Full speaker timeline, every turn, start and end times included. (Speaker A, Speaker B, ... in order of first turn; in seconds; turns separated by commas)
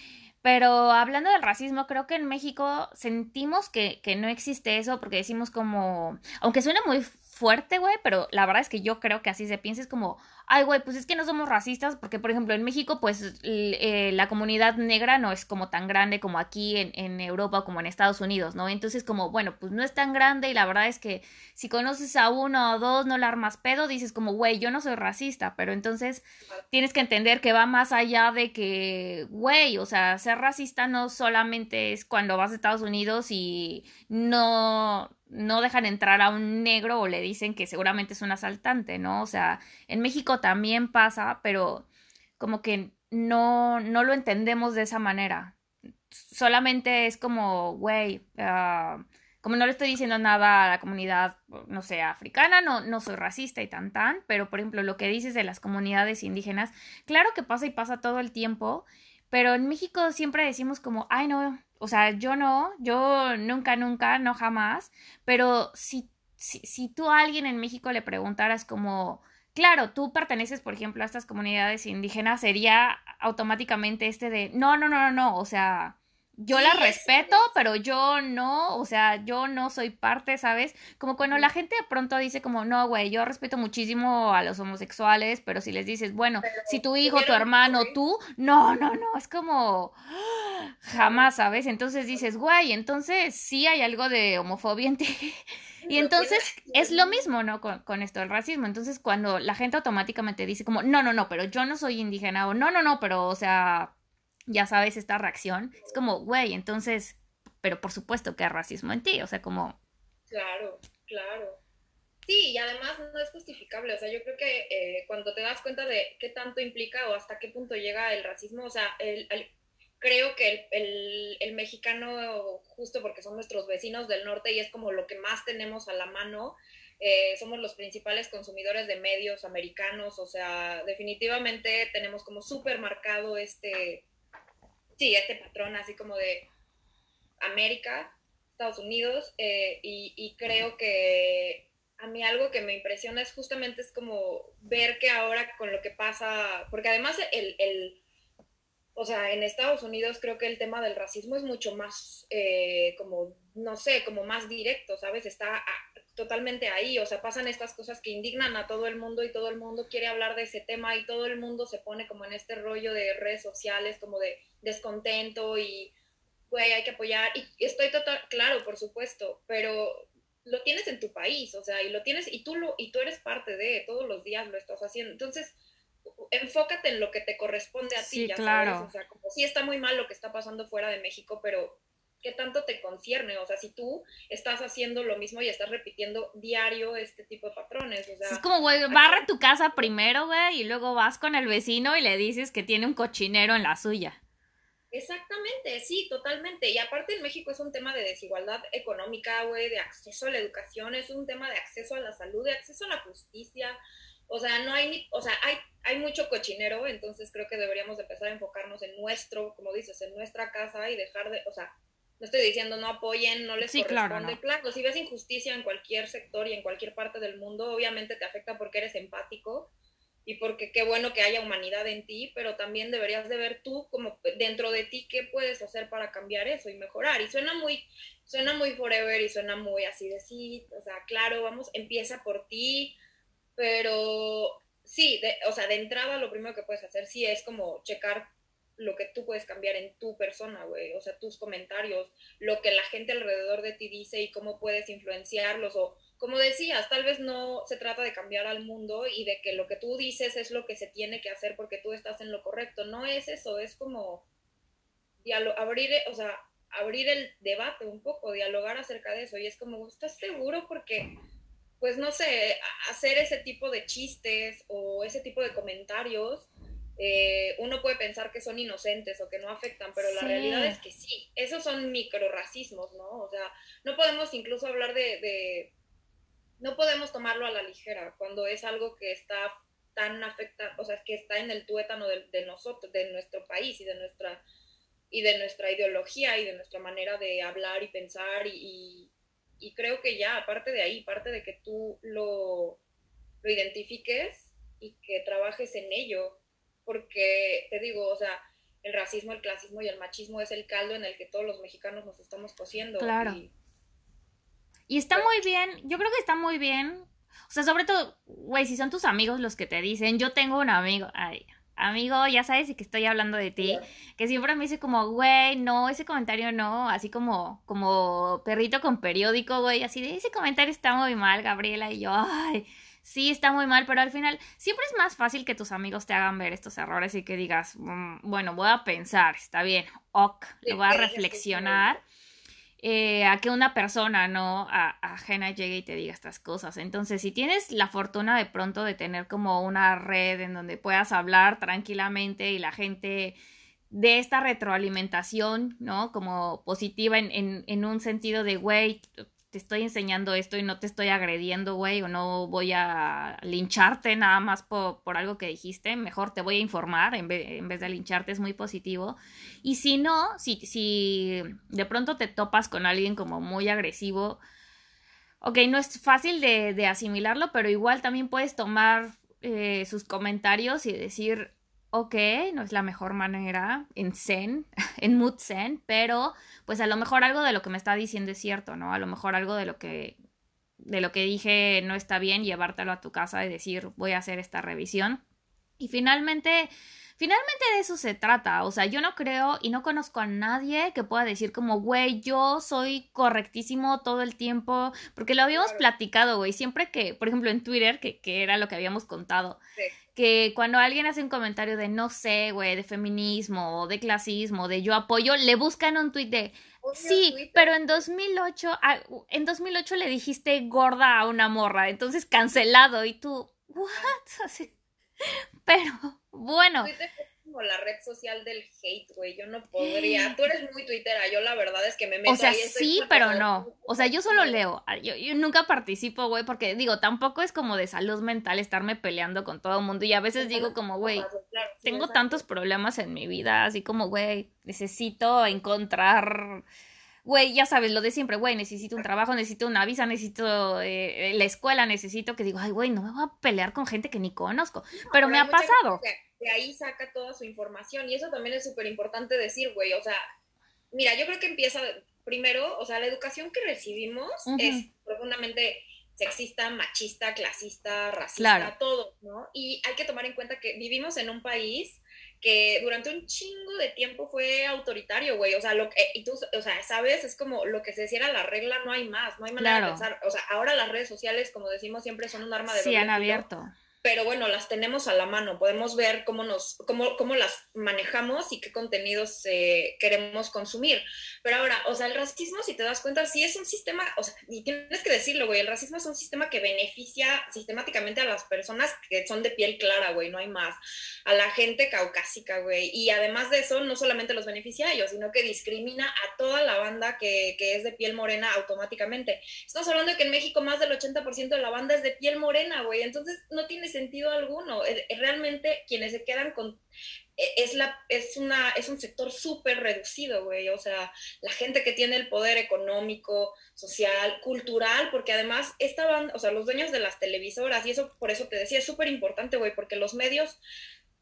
Speaker A: 0.4-41.9, Speaker A: 42.4-45.5, Speaker A: 46.1-103.9, Speaker B: 76.5-77.6, Speaker B: 81.2-81.5, Speaker B: 86.4-87.9, Speaker B: 90.9-91.3, Speaker B: 95.8-97.3, Speaker A: 104.5-109.8, Speaker B: 110.3-111.6, Speaker B: 112.3-119.5, Speaker B: 120.0-134.0, Speaker B: 135.0-136.5, Speaker B: 137.4-148.0, Speaker B: 148.9-165.9, Speaker B: 166.5-175.5, Speaker B: 176.2-189.9, Speaker A: 178.0-178.9, Speaker A: 188.2-194.2, Speaker B: 194.9-203.8, Speaker B: 204.3-219.7, Speaker A: 213.6-214.4, Speaker B: 220.2-233.0, Speaker B: 233.6-254.2, Speaker B: 255.2-261.1, Speaker B: 261.8-275.7, Speaker A: 270.0-270.8, Speaker B: 276.6-284.4, Speaker B: 285.1-292.8, Speaker B: 293.4-303.5, Speaker A: 303.0-303.4, Speaker A: 304.9-332.0, Speaker B: 313.6-313.8, Speaker B: 330.6-332.0, Speaker A: 332.8-343.4, Speaker A: 343.9-364.4, Speaker A: 365.4-380.1, Speaker A: 380.8-385.2, Speaker A: 385.8-399.6, Speaker B: 395.5-395.8, Speaker A: 400.1-414.7, Speaker B: 406.8-408.0, Speaker A: 415.2-416.9, Speaker B: 416.8-424.6, Speaker A: 419.8-420.4, Speaker A: 422.2-431.3, Speaker B: 430.4-432.4, Speaker A: 431.8-436.6, Speaker A: 437.2-446.0, Speaker B: 445.0-450.2, Speaker B: 450.9-473.4, Speaker A: 454.5-454.9, Speaker A: 458.4-458.7, Speaker A: 469.6-470.1, Speaker A: 472.7-473.7, Speaker B: 474.0-506.8, Speaker B: 507.4-520.6